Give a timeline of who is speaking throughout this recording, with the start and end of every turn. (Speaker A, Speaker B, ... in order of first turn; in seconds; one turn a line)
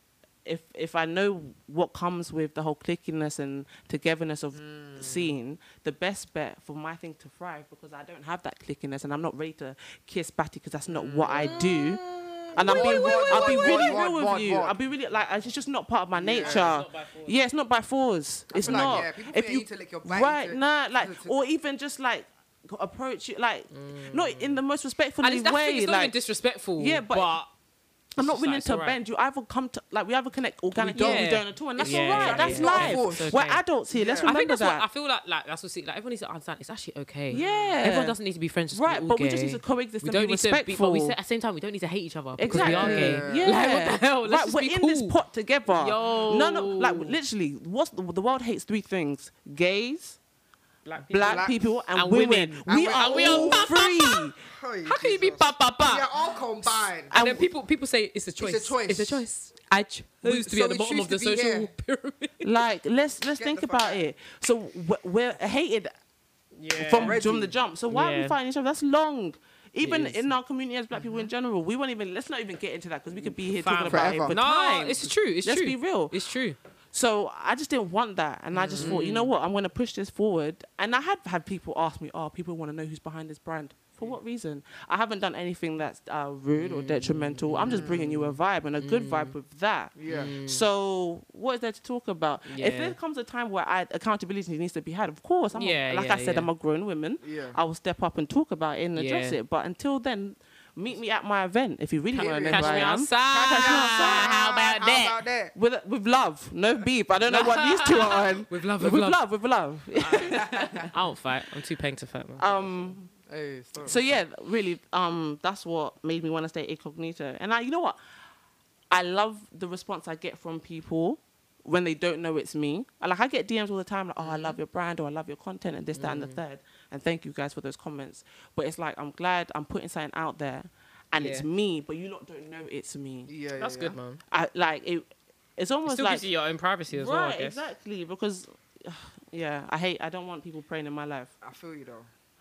Speaker A: 0.5-12.0
Speaker B: 4.5-5.3
Speaker B: 10.9-11.8
Speaker C: 11.4-14.0
Speaker A: 12.5-26.2
Speaker B: 12.6-14.8
Speaker B: 16.1-16.8
Speaker C: 16.4-17.4
Speaker B: 18.5-21.3
Speaker C: 18.6-19.1
Speaker C: 23.7-24.6
Speaker C: 25.2-27.5
Speaker A: 26.8-27.4
Speaker C: 28.2-29.0
Speaker A: 28.2-34.9
Speaker B: 30.8-33.4
Speaker C: 30.9-33.6
Speaker B: 33.9-34.3
Speaker C: 34.2-45.2
Speaker A: 37.3-38.2
Speaker B: 37.3-37.8
Speaker A: 38.7-41.2
Speaker A: 42.4-50.2
Speaker B: 42.5-43.5
Speaker C: 45.7-47.2
Speaker C: 50.9-54.3
Speaker A: 51.1-54.4
Speaker B: 51.2-51.5
Speaker B: 52.7-53.8
Speaker B: 54.4-57.2
Speaker C: 54.9-62.4
Speaker A: 57.1-57.5
Speaker B: 58.4-59.2
Speaker B: 60.2-61.7
Speaker A: 62.4-65.9
Speaker B: 63.4-64.0
Speaker C: 66.5-67.2
Speaker A: 66.8-76.2
Speaker B: 66.9-67.6
Speaker C: 67.9-68.4
Speaker C: 69.8-70.3
Speaker C: 71.0-71.3
Speaker C: 73.2-76.6
Speaker B: 73.9-74.4
Speaker A: 76.9-104.3
Speaker C: 78.6-79.3
Speaker B: 78.6-79.0
Speaker C: 86.5-88.3
Speaker B: 87.6-88.2
Speaker C: 88.8-89.3
Speaker B: 90.0-90.3
Speaker C: 90.1-90.6
Speaker C: 92.5-93.0
Speaker C: 95.5-96.5
Speaker B: 97.2-97.6
Speaker C: 99.0-99.4
Speaker B: 102.1-105.5
Speaker C: 102.2-105.2
Speaker A: 105.5-110.9
Speaker C: 107.3-109.2
Speaker C: 110.0-112.7
Speaker B: 110.3-110.8
Speaker A: 112.4-113.1
Speaker B: 113.1-114.0
Speaker A: 113.8-118.0
Speaker A: 118.9-133.3
Speaker C: 124.3-124.5
Speaker C: 126.0-126.4
Speaker C: 131.2-131.5
Speaker B: 133.3-134.0
Speaker C: 133.6-134.2
Speaker A: 134.3-136.3
Speaker C: 135.9-137.7
Speaker A: 136.9-141.3
Speaker B: 141.4-142.1